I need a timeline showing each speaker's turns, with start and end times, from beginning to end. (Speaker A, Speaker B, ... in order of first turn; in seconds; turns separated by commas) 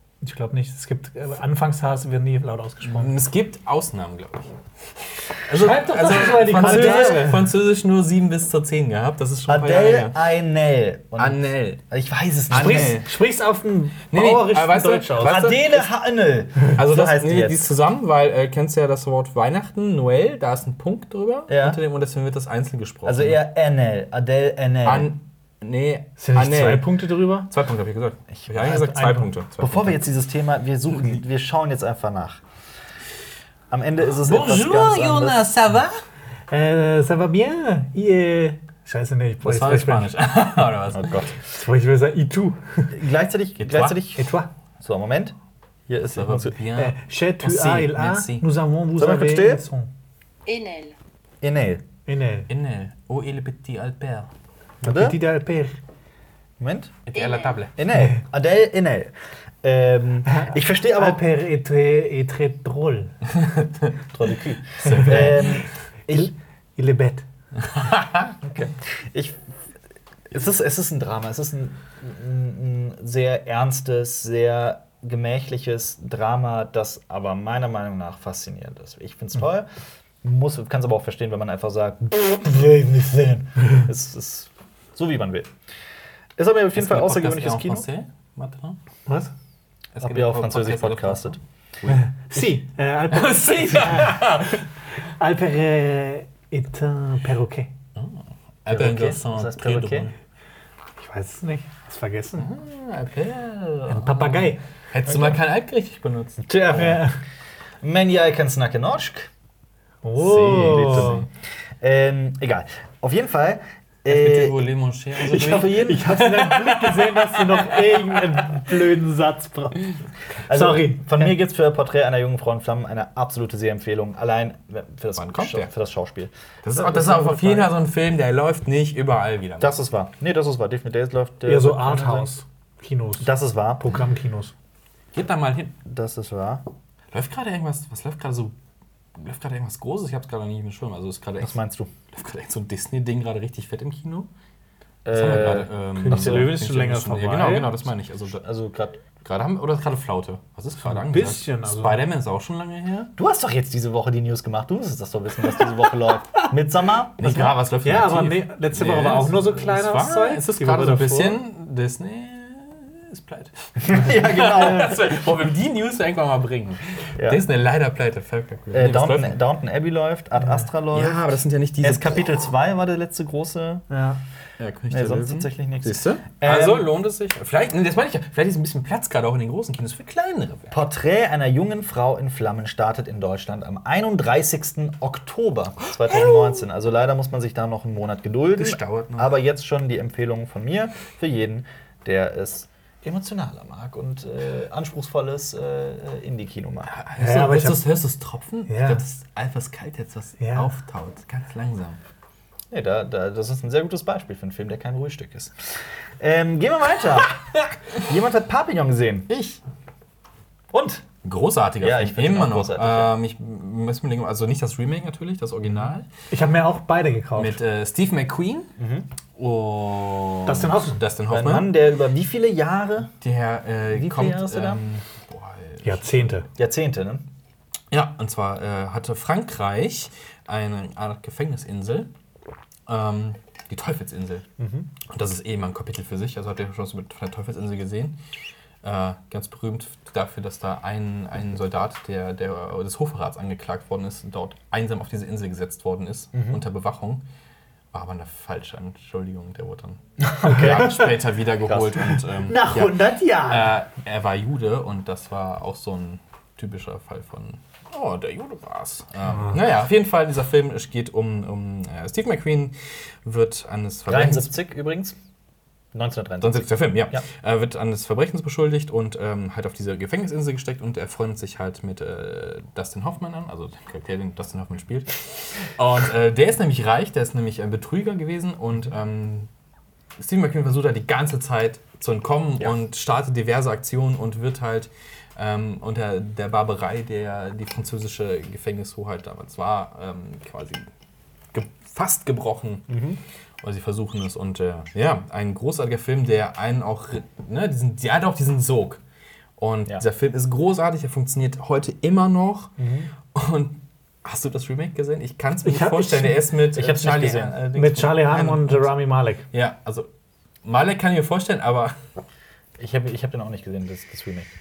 Speaker A: 0.2-3.1, Speaker B: 2.8-10.2, Speaker A: 5.5-7.5, Speaker C: 6.5-7.2, Speaker C: 9.5-13.0, Speaker B: 11.2-11.8, Speaker B: 12.5-13.1, Speaker A: 12.5-15.4, Speaker B: 14.1-15.8, Speaker C: 15.1-17.7, Speaker B: 16.7-23.4, Speaker C: 21.5-21.8, Speaker C: 23.0-25.1, Speaker B: 24.8-26.9, Speaker A: 26.2-27.5, Speaker C: 26.3-26.8, Speaker B: 27.5-30.0, Speaker C: 28.3-32.4, Speaker A: 28.8-29.2, Speaker B: 30.9-31.2, Speaker C: 33.7-35.4, Speaker A: 34.2-35.9, Speaker A: 36.5-40.7, Speaker B: 39.4-41.3, Speaker C: 40.9-41.4, Speaker A: 41.4-43.0, Speaker C: 42.9-44.3, Speaker B: 43.6-44.0, Speaker A: 44.1-44.5, Speaker C: 44.8-45.3, Speaker C: 45.9-46.6, Speaker B: 46.0-48.5, Speaker A: 46.8-49.9, Speaker C: 49.0-49.6, Speaker C: 51.4-51.8, Speaker A: 52.1-52.5, Speaker B: 52.5-54.3, Speaker A: 54.8-55.8, Speaker C: 54.8-55.2, Speaker C: 56.6-57.0, Speaker B: 57.1-57.8, Speaker C: 57.8-59.1, Speaker C: 59.6-61.2, Speaker A: 60.3-63.1, Speaker B: 63.3-63.9, Speaker C: 64.1-66.3, Speaker B: 64.8-65.8, Speaker A: 65.0-65.2, Speaker A: 66.1-67.2, Speaker B: 67.6-68.4, Speaker C: 68.4-69.4, Speaker C: 70.3-79.7, Speaker C: 80.2-85.5, Speaker C: 86.4-87.8, Speaker B: 86.7-88.8, Speaker A: 89.1-89.3, Speaker B: 89.9-92.5, Speaker C: 90.0-91.4, Speaker A: 91.9-97.7, Speaker B: 93.1-94.6, Speaker B: 98.0-100.1, Speaker C: 98.7-100.1, Speaker A: 101.0-102.5, Speaker B: 102.4-106.4, Speaker A: 103.9-104.6, Speaker C: 105.1-105.4, Speaker C: 106.4-107.1, Speaker A: 106.7-107.2, Speaker C: 107.8-109.3, Speaker A: 110.0-111.2, Speaker B: 110.2-111.3, Speaker C: 110.3-111.3, Speaker C: 111.8-114.6, Speaker B: 114.1-118.5, Speaker C: 115.2-116.0, Speaker A: 115.3-119.9, Speaker C: 120.5-127.7, Speaker A: 120.5-121.3, Speaker B: 125.2-125.7, Speaker B: 126.6-129.7, Speaker C: 129.6-132.3, Speaker A: 131.4-133.3, Speaker C: 133.2-134.0, Speaker A: 133.8-134.5, Speaker B: 135.1-135.8, Speaker C: 135.8-136.6, Speaker B: 137.1-138.6, Speaker B: 139.2-141.6, Speaker C: 141.4-141.9, Speaker B: 142.1-144.3, Speaker C: 145.0-146.5, Speaker B: 145.1-148.4, Speaker A: 145.9-147.8, Speaker C: 148.3-149.0, Speaker B: 149.2-153.1, Speaker A: 150.8-152.0, Speaker C: 153.2-157.5, Speaker B: 157.2-169.4, Speaker A: 157.8-161.4, Speaker C: 163.8-165.1, Speaker C: 168.7-171.2, Speaker B: 170.9-172.4, Speaker C: 171.8-173.8, Speaker A: 173.9-174.2, Speaker B: 174.6-180.7, Speaker C: 174.9-176.9, Speaker C: 180.7-196.9, Speaker B: 185.9-186.7, Speaker B: 188.6-189.3, Speaker B: 196.9-202.0, Speaker A: 197.2-197.9, Speaker A: 198.7-199.0, Speaker A: 200.4-200.7, Speaker C: 202.7-207.4, Speaker B: 207.1-208.0, Speaker C: 207.9-209.3, Speaker B: 209.3-209.6, Speaker C: 210.7-211.0, Speaker B: 211.2-216.1, Speaker C: 211.8-213.1, Speaker A: 216.3-217.6, Speaker B: 217.3-218.7, Speaker C: 218.8-219.1, Speaker B: 219.4-221.7, Speaker A: 220.4-221.0, Speaker C: 221.3-223.1, Speaker B: 223.2-226.4, Speaker C: 223.9-224.8, Speaker A: 225.8-226.5, Speaker C: 226.6-227.2, Speaker B: 227.9-232.1, Speaker B: 232.8-234.4, Speaker C: 234.6-234.9, Speaker B: 235.0-238.2, Speaker B: 238.8-247.2, Speaker C: 246.3-246.6, Speaker B: 247.9-264.5, Speaker C: 250.2-251.1, Speaker C: 251.7-253.7, Speaker A: 259.3-259.6, Speaker C: 264.1-265.2, Speaker C: 265.9-267.2, Speaker B: 266.4-279.5, Speaker B: 280.2-290.8, Speaker B: 291.5-293.0, Speaker C: 292.9-293.2, Speaker B: 293.6-299.0, Speaker B: 299.6-302.7, Speaker C: 302.8-303.1, Speaker B: 303.3-308.9, Speaker A: 305.6-306.4, Speaker C: 306.7-308.1, Speaker A: 307.7-309.4, Speaker B: 309.5-310.1, Speaker B: 310.6-312.0, Speaker C: 312.8-314.5